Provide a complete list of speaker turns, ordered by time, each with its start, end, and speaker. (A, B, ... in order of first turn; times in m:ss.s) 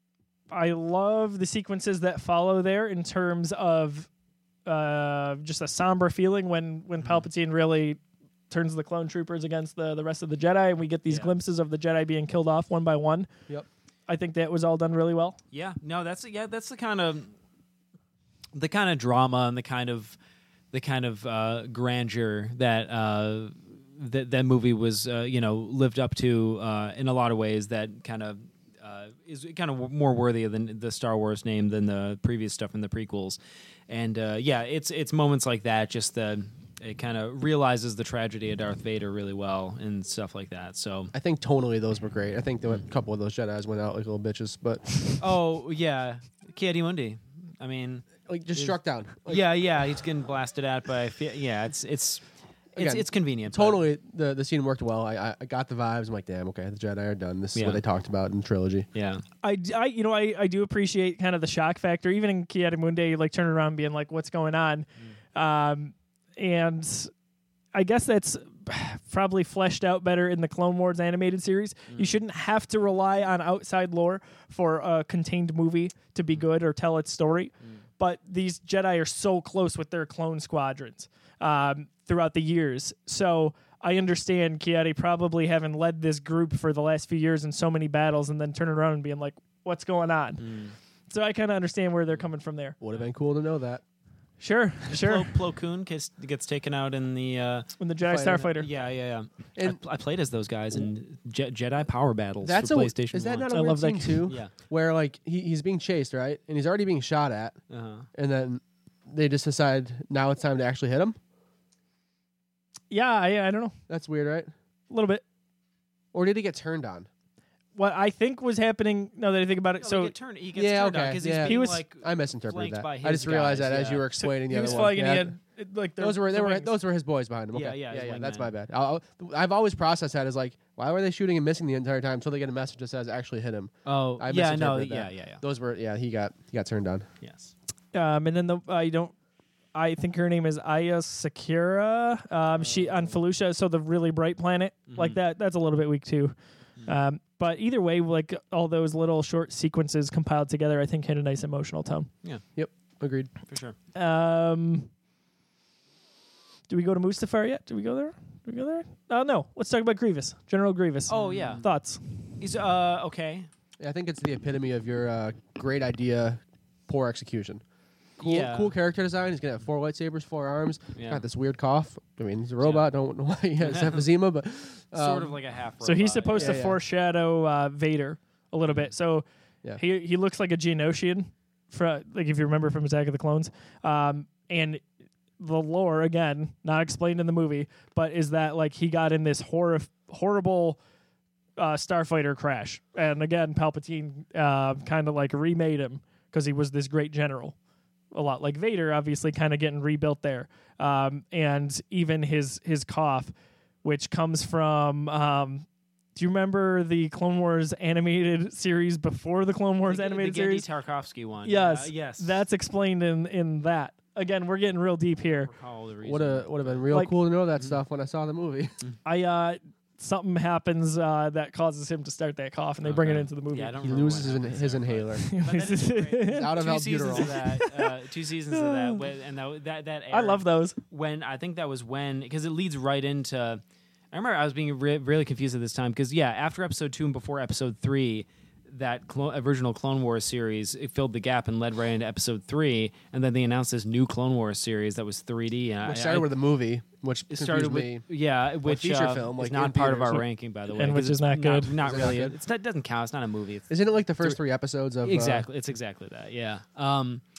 0:00.5-0:04.1 A
0:04.6-0:08.0 A
0:08.5-0:13.3 A
0:11.1-0:11.3 B
0:14.1-0:15.4 A
0:15.5-0:17.3 B
0:18.5-0:20.2 B
0:20.7-0:33.4 B
0:33.9-0:41.1 B
0:41.1-0:45.2 C
0:45.2-0:48.7 B
0:48.2-0:49.4 C
0:49.2-0:52.2 B
0:52.7-0:53.8 B
0:52.8-0:58.9 C
0:57.5-0:57.8 B
0:58.9-0:59.2 B
0:59.4-1:07.1 A
1:07.7-1:30.4 A
1:11.9-1:12.2 B
1:30.4-1:30.7 B
1:31.1-1:32.8 A
1:32.8-1:33.8 C
1:34.4-1:35.3 A
1:34.9-1:43.5 B
1:37.8-1:38.7 A
1:38.0-1:38.4 C
1:42.4-1:47.6 C
1:43.5-1:44.2 A
1:44.2-1:44.5 B
1:47.7-1:48.1 B
1:48.1-1:51.2 C
1:52.9-1:53.7 A
1:53.9-1:54.5 C
1:54.9-1:55.2 A
1:56.1-1:57.1 C
1:57.8-2:00.1 A
1:59.8-2:04.1 B
2:00.5-2:05.4 C
2:01.4-2:01.8 A
2:04.2-2:06.7 A
2:06.0-2:17.1 C
2:07.5-2:08.5 B
2:13.8-2:15.4 B
2:17.2-2:17.5 B
2:17.9-2:19.1 A
2:19.7-2:26.3 A
2:22.6-2:23.2 B
2:24.9-2:25.2 B
2:26.8-2:32.1 A
2:32.6-2:33.3 C
2:33.5-2:33.8 B
2:33.9-2:34.9 A
2:36.7-2:42.0 A
2:41.1-2:41.6 B
2:42.4-2:43.5 B
2:43.8-2:47.6 C
2:48.2-2:55.4 C
2:48.2-2:48.7 B
2:51.0-2:51.2 B
2:53.6-2:54.0 B
2:54.9-2:56.7 B
2:55.8-2:59.2 A
2:56.3-2:56.8 C
2:59.8-3:04.8 A
3:05.4-3:10.8 A
3:11.6-3:17.6 A
3:18.1-3:23.3 A
3:23.8-3:30.6 A
3:29.9-3:32.4 B
3:31.4-3:35.5 A
3:35.4-3:36.9 B
3:36.0-3:38.7 C
3:39.0-3:43.8 A
3:42.8-3:53.6 B
3:43.8-3:45.2 C
3:45.2-3:46.6 A
3:46.2-3:47.4 C
3:47.1-3:47.9 A
3:48.5-3:49.0 A
3:50.1-3:50.8 A
3:54.1-4:06.3 B
4:05.8-4:08.0 C
4:07.3-4:14.4 B
4:08.6-4:10.2 C
4:10.7-4:11.7 A
4:11.8-4:12.3 C
4:13.7-4:15.4 C
4:15.0-4:17.2 B